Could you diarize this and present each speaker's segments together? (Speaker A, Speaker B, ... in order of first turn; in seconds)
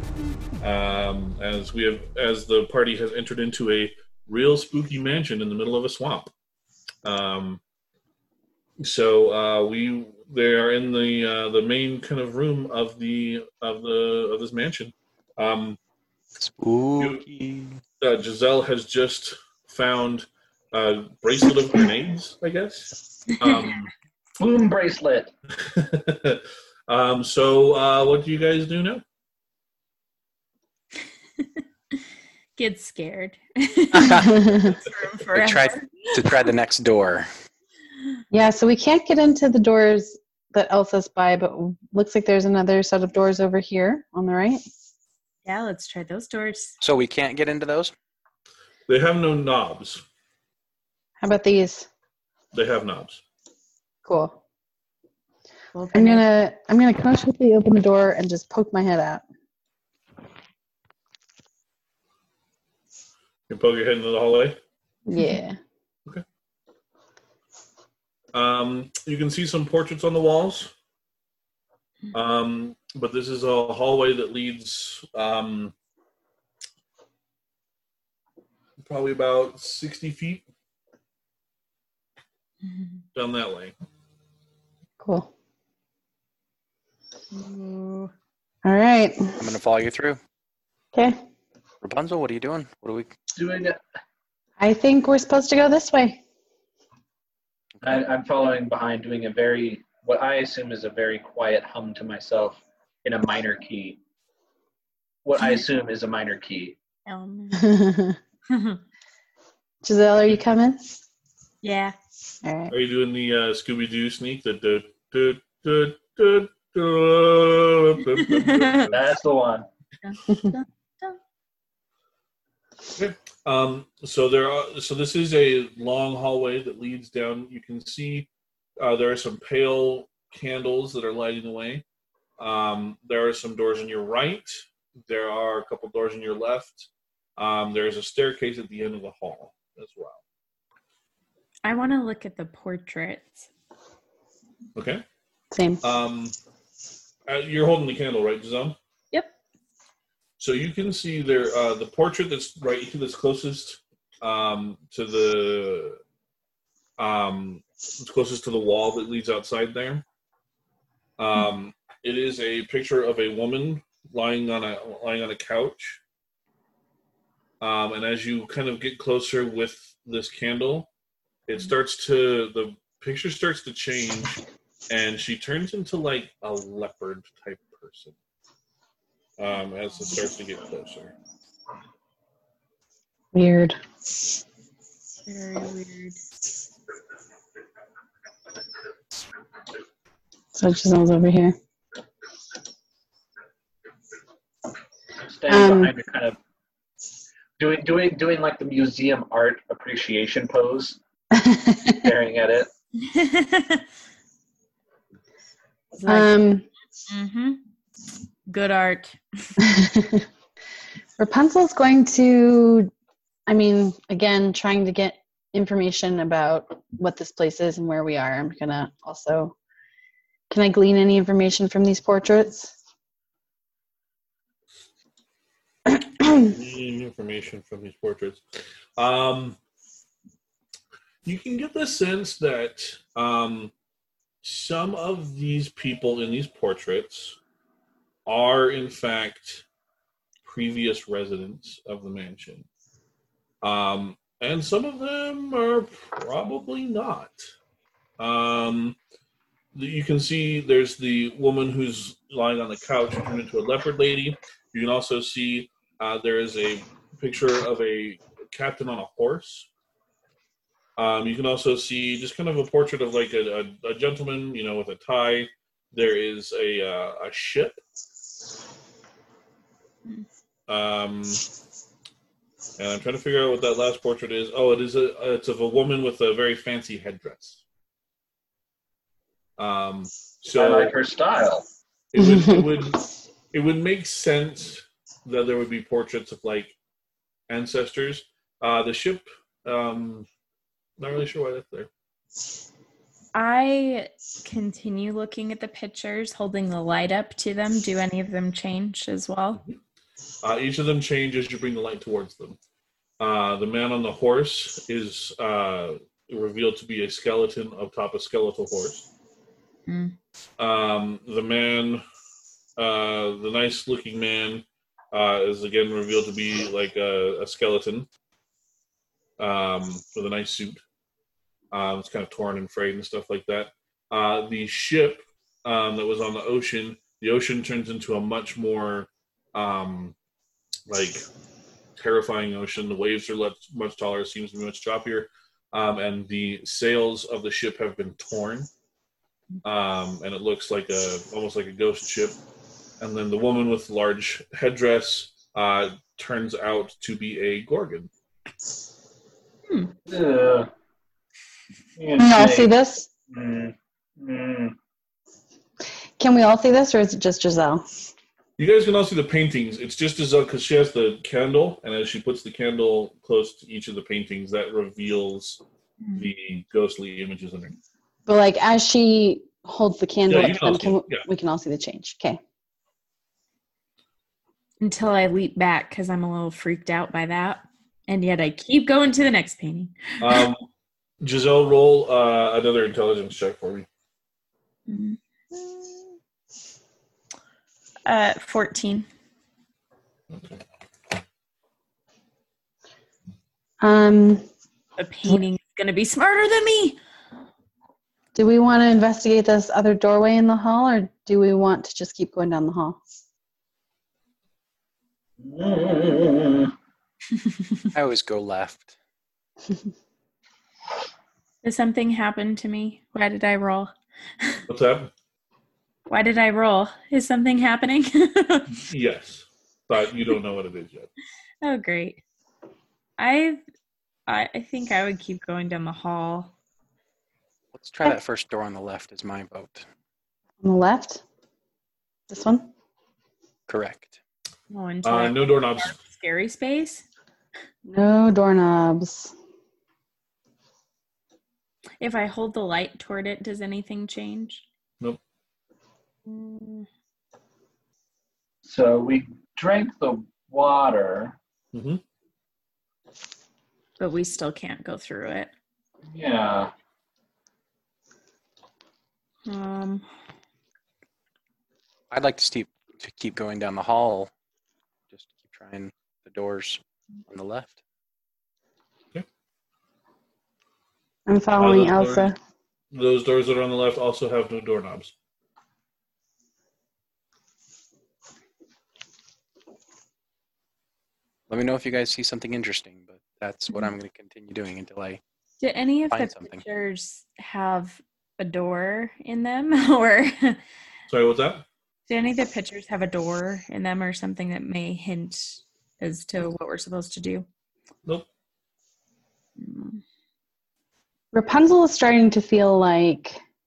Speaker A: 0.6-6.3, 7.0-7.6, 8.8-15.8, 17.0-17.2, 18.0-23.9, 25.6-29.0, 48.9-50.0, 52.5-53.2, 63.5-64.6, 68.3-70.7, 72.1-75.7, 78.8-80.5, 83.2-83.7, 112.7-119.1, 123.0-131.8, 132.4-140.2, 144.8-145.0, 145.8-146.3, 147.3-148.8, 150.4-156.0, 157.0-160.1, 161.2-166.0, 167.6-170.9, 171.5-178.1, 179.4-181.1, 226.3-228.4, 229.0-229.6, 231.2-233.7, 234.4-237.4, 238.3-239.7, 240.4-242.7, 243.6-247.5, 248.2-249.0, 249.7-259.7, 261.0-267.8, 270.7-271.4, 272.8-277.6, 279.6-280.9, 282.1-283.0, 283.5-286.8, 287.5-290.3, 291.0-291.9, 300.4-302.6, 303.2-309.1, 310.6-312.0, 312.8-318.1, 319.4-320.8, 321.7-330.1, 330.9-331.2, 332.0-338.7, 339.6-342.4, 343.0-348.1, 358.6-365.6, 366.2-367.8, 370.3-371.2, 380.2-380.6, 381.2-383.9, 390.3-390.6, 414.7-415.1, 418.7-421.1, 435.0-436.0, 451.7-452.0, 471.6-472.3, 472.9-475.1, 491.1-491.6
Speaker B: 16.4-17.8, 33.9-34.4, 35.3-37.3, 46.8-47.9, 89.4-90.2, 91.8-93.1, 407.9-408.9, 427.7-429.9, 433.7-434.2, 462.1-464.3, 465.1-467.8, 481.5-485.2, 486.1-486.6
Speaker C: 23.3-23.7, 32.6-36.5, 45.5-46.8, 55.7-56.3, 82.7-83.0, 87.3-88.1, 107.1-107.7, 108.5-108.8, 111.6-112.0, 118.2-118.9, 120.0-121.2, 141.6-143.5, 185.3-186.2, 203.0-203.8, 205.9-206.4, 207.1-207.6, 208.5-209.6, 293.4-299.6, 309.9-310.2, 366.0-366.3, 374.8-380.4, 384.9-386.0, 388.1-389.1, 395.0-397.0, 411.6-414.6, 416.1-418.8, 421.6-422.2, 423.2-423.6, 424.3-426.5, 434.7-437.1, 442.0-444.6, 446.3-446.9, 454.0-455.5, 459.4-460.1, 485.6-490.6, 492.1-497.5, 499.6-500.0
Speaker D: 24.4-25.3, 93.3-93.8, 97.8-104.0, 105.2-106.8, 118.9-119.7, 195.2-196.4, 197.6-201.0, 201.9-202.7, 280.6-281.7, 350.1-350.7, 352.0-352.7, 353.3-354.8, 405.4-406.7, 448.6-451.4, 456.1-456.7
Speaker E: 34.2-34.8, 38.3-44.6, 51.2-51.9, 54.0-54.4, 55.9-59.2, 65.1-65.6, 85.0-85.3, 88.6-89.4, 90.9-91.2, 94.6-96.2, 107.5-108.2, 109.8-111.0, 112.4-112.7, 145.5-145.8, 183.3-183.8, 190.6-191.6, 195.5-195.9, 201.3-202.1, 206.1-206.7, 209.6-210.3, 211.2-212.9, 213.5-219.6, 220.5-222.8, 282.2-282.7, 352.2-353.1, 356.2-358.1, 368.3-372.4, 393.8-394.4, 398.4-403.0, 430.6-431.2, 432.3-432.7, 437.9-439.3, 471.3-472.4, 501.3-503.4